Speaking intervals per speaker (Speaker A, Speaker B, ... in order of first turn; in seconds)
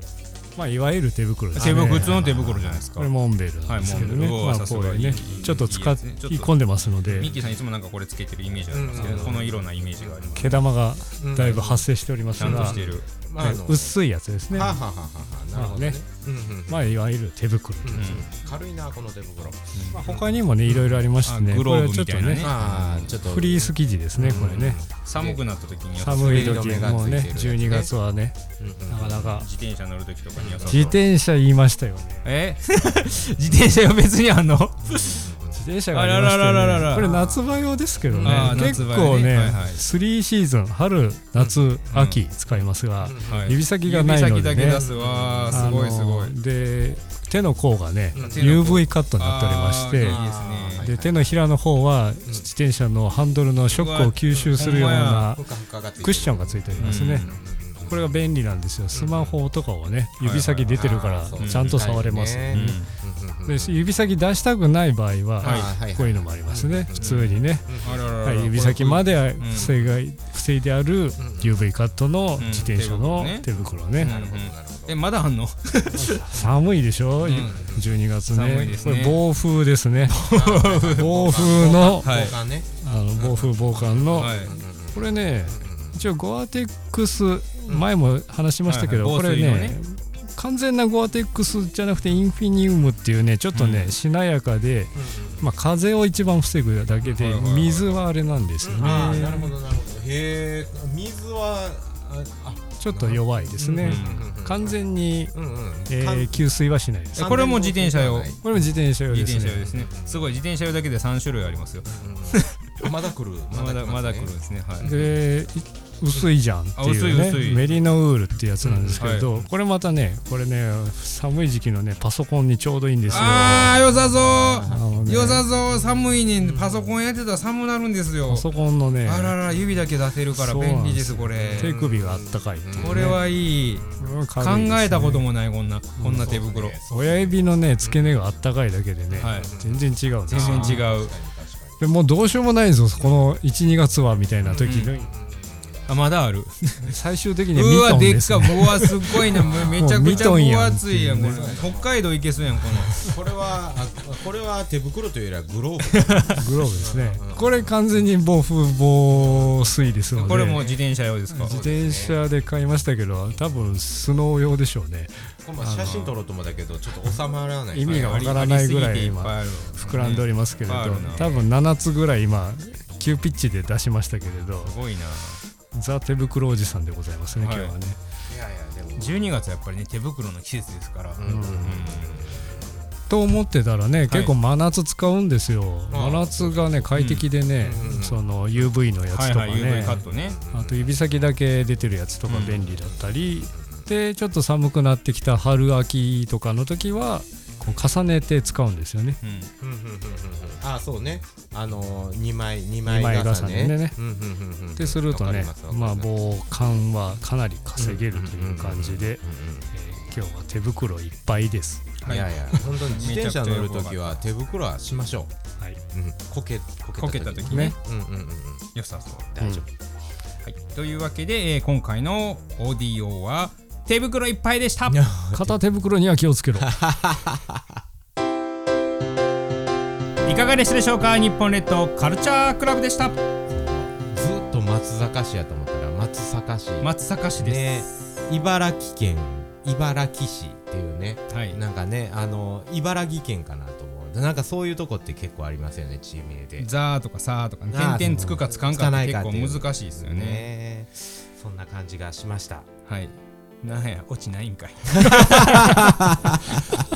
Speaker A: 0.6-2.2, 3.0-7.3, 9.0-9.3, 10.4-12.8, 13.4-14.8, 15.5-16.1, 16.7-18.2, 19.9-22.4, 23.1-24.8, 25.9-29.5, 30.7-32.3, 35.5-44.8, 45.5-50.2, 50.8-55.5, 56.0-57.3, 57.8-62.9, 63.5-74.1, 76.0-80.3, 80.9-84.3, 84.9-99.5, 102.8-105.3, 105.9-107.5, 108.4-109.7, 114.8-123.9, 124.6-125.5, 128.2-129.4, 130.3-133.2, 134.0-135.3, 136.0-140.9, 141.8-145.1, 146.9-151.5, 156.4-160.7, 161.3-166.1, 167.7-174.7, 175.7-178.0, 181.2-181.7, 183.1-199.2, 202.8-204.0, 204.8-212.0, 217.5-217.7, 225.3-226.8
Speaker B: 1.5-2.9, 3.8-4.3, 5.3-5.5, 7.0-7.6, 8.7-10.6, 11.2-14.0, 14.5-17.0, 17.8-20.8, 22.4-25.4, 26.0-27.9, 28.6-29.4, 30.4-31.0, 34.8-35.6, 36.9-39.3, 43.0-43.5, 44.6-45.7, 48.1-48.8, 50.0-51.3, 54.3-58.0, 58.9-59.3, 60.7-63.8, 65.4-68.1, 69.5-69.9, 71.2-71.5, 74.0-75.0, 77.2-77.8, 80.2-86.0, 95.0-95.5, 98.6-104.8, 105.3-106.5, 107.1-108.4, 109.7-110.3, 111.8-115.1, 118.6-119.1, 123.0-124.9, 126.4-127.0, 129.5-129.8, 131.3-134.1, 136.1-138.4, 139.1-141.9, 144.4-145.9, 149.3-150.4, 151.2-151.9, 152.7-157.7, 159.1-160.8, 161.4-162.3, 165.4-168.4, 178.3-179.2, 181.2-182.7, 185.9-186.8, 187.6-188.2, 189.7-190.9, 192.3-193.8, 199.6-206.1, 207.8-209.7, 212.1-215.3, 215.9-218.7, 219.3-219.7, 224.9-225.6, 226.6-227.6, 233.5-246.7, 247.7-252.7, 255.0-256.5
Speaker C: 1.5-3.1, 3.6-6.5, 7.2-10.7, 12.4-13.1, 17.9-18.3, 19.7-20.0, 21.2-23.1, 25.0-27.0, 29.3-31.0, 32.2-35.3, 35.9-37.1, 38.2-39.8, 41.9-42.2, 43.2-46.3, 48.2-50.9, 53.7-55.3, 56.8-57.3, 60.2-61.9, 62.5-62.9, 65.4-65.7, 67.0-67.3, 67.8-69.8, 72.4-73.5, 74.0-76.4, 77.2-77.7, 78.3-79.2, 80.1-81.4, 82.0-82.3, 84.1-84.6, 88.7-89.8, 93.5-93.9, 97.1-98.0, 98.8-99.1, 103.8-104.3, 107.2-108.4, 109.1-112.9, 113.5-114.9, 116.8-117.7, 119.0-119.3, 123.1-128.4, 129.0-131.8, 132.7-133.8, 134.4-136.8, 139.2-139.5, 140.3-141.1, 144.6-144.9, 145.9-146.9, 147.5-153.1, 156.0-156.4, 160.2-161.5, 167.8-171.4, 174.6-175.4, 177.3-177.7, 179.0-182.2, 184.1-184.3, 186.9-187.3, 189.1-190.4, 192.3-192.6, 199.2-199.5, 212.0-214.2, 217.0-217.7, 218.7-219.5, 220.4-225.0, 230.2-233.2, 236.8-237.9, 241.3-241.6, 246.6-250.5, 252.9-255.9